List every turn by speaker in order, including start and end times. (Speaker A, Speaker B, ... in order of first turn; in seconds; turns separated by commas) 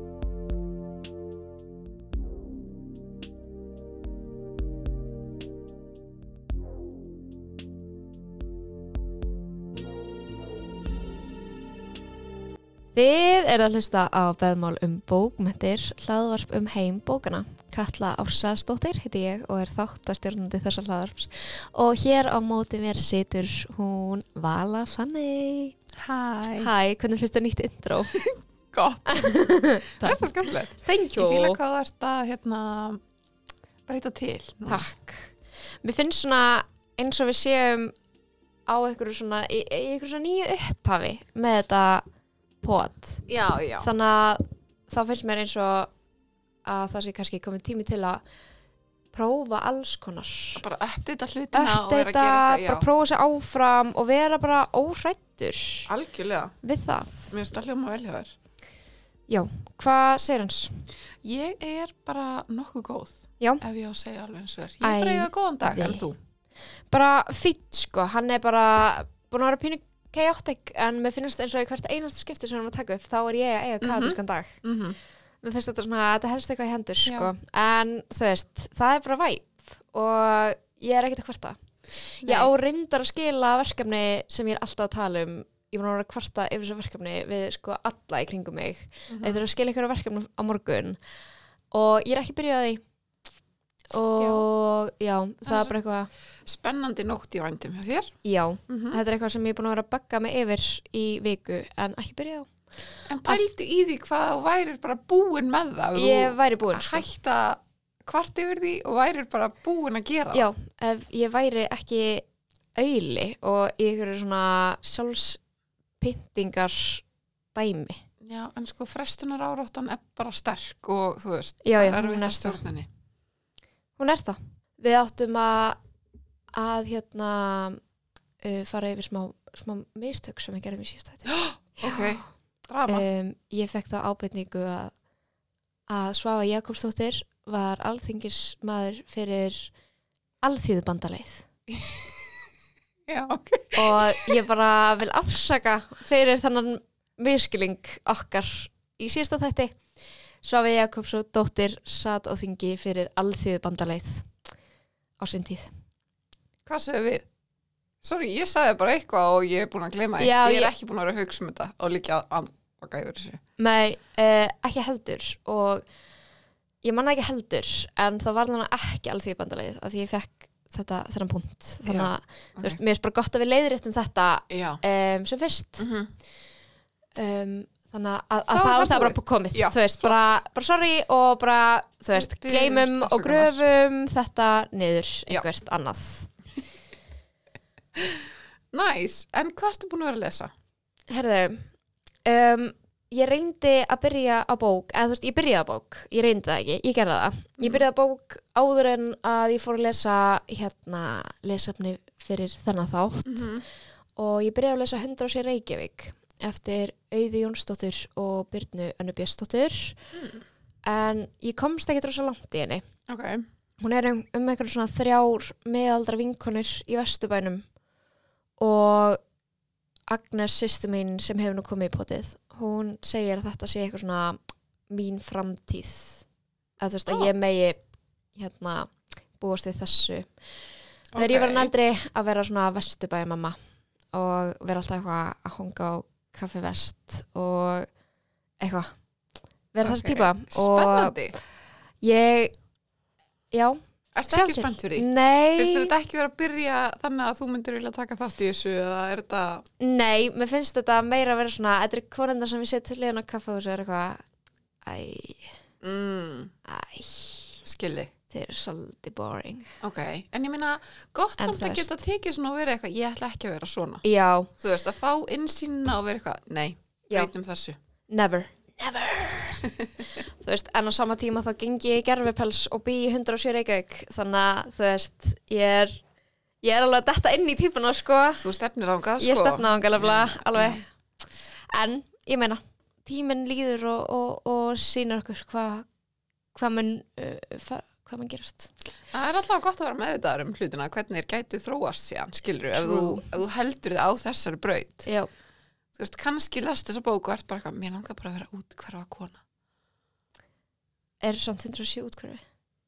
Speaker A: 12.9-25.8, Speaker B: 26.0-26.7, Speaker A: 26.6-28.2, Speaker B: 28.1-33.0, Speaker A: 29.1-30.3, Speaker A: 30.8-31.6, Speaker B: 33.9-34.9, Speaker A: 34.7-35.3, Speaker A: 35.8-37.9, Speaker A: 38.7-42.0, Speaker A: 42.6-43.2, Speaker B: 43.3-43.9, Speaker A: 43.8-45.9, Speaker A: 46.6-48.2, Speaker A: 49.1-50.6, Speaker B: 50.6-52.9, Speaker A: 51.5-55.9, Speaker B: 55.9-56.5, Speaker A: 56.6-57.3, Speaker B: 57.3-58.3, Speaker A: 59.3-60.9, Speaker B: 61.2-66.2, Speaker A: 64.8-66.1, Speaker A: 66.9-74.6, Speaker B: 73.8-75.0, Speaker A: 75.4-91.0, Speaker B: 77.0-77.3, Speaker B: 82.2-82.5, Speaker B: 89.1-89.4, Speaker A: 91.7-92.8, Speaker A: 93.9-96.1, Speaker B: 94.2-94.5, Speaker B: 95.5-95.7, Speaker B: 96.4-98.1, Speaker A: 98.2-102.5, Speaker B: 98.7-99.0, Speaker B: 103.1-110.5, Speaker A: 106.0-107.0, Speaker A: 110.3-112.2, Speaker A: 112.8-115.4, Speaker A: 116.0-118.0, Speaker B: 118.2-122.9, Speaker A: 121.6-122.6, Speaker A: 124.0-125.8, Speaker A: 126.5-127.8, Speaker A: 128.4-132.2, Speaker B: 131.3-133.1, Speaker A: 132.9-134.9, Speaker A: 135.9-139.7, Speaker A: 140.4-141.4, Speaker B: 141.7-142.4, Speaker B: 143.1-144.4, Speaker A: 143.7-149.8, Speaker A: 150.4-154.3, Speaker A: 155.2-155.7, Speaker B: 156.7-157.2, Speaker B: 158.0-163.4, Speaker A: 160.2-160.7, Speaker A: 163.6-165.8, Speaker A: 166.8-175.9, Speaker B: 171.8-172.8, Speaker B: 174.5-174.8, Speaker B: 175.8-176.1, Speaker A: 177.2-186.3, Speaker B: 178.5-180.4, Speaker B: 182.1-183.6, Speaker B: 187.9-190.5, Speaker A: 191.1-191.7, Speaker A: 192.2-203.5, Speaker B: 203.2-203.6, Speaker A: 204.2-210.0, Speaker B: 210.1-210.4, Speaker A: 210.8-212.8, Speaker B: 213.1-213.4, Speaker A: 213.8-217.6, Speaker A: 218.6-219.2, Speaker A: 220.1-224.4, Speaker A: 224.9-226.2, Speaker A: 226.8-227.8, Speaker A: 228.3-230.3, Speaker B: 231.1-231.7, Speaker A: 231.1-233.6, Speaker A: 234.1-237.9, Speaker A: 238.6-238.9, Speaker A: 239.7-241.2, Speaker B: 239.8-241.4, Speaker A: 242.0-242.5, Speaker A: 243.5-245.9, Speaker B: 244.1-249.6, Speaker A: 249.8-254.2, Speaker A: 254.8-255.5, Speaker B: 255.8-256.5, Speaker A: 256.6-257.6, Speaker B: 257.6-258.1, Speaker A: 258.3-259.7, Speaker B: 259.8-264.0, Speaker A: 261.4-261.9, Speaker A: 264.0-264.5, Speaker B: 264.6-267.8, Speaker A: 268.1-276.0, Speaker A: 276.6-278.5, Speaker B: 278.4-280.8, Speaker A: 279.2-280.9, Speaker A: 281.7-285.9, Speaker A: 286.5-288.7, Speaker B: 289.1-295.1, Speaker A: 292.7-293.3, Speaker B: 295.9-299.4, Speaker A: 301.2-302.4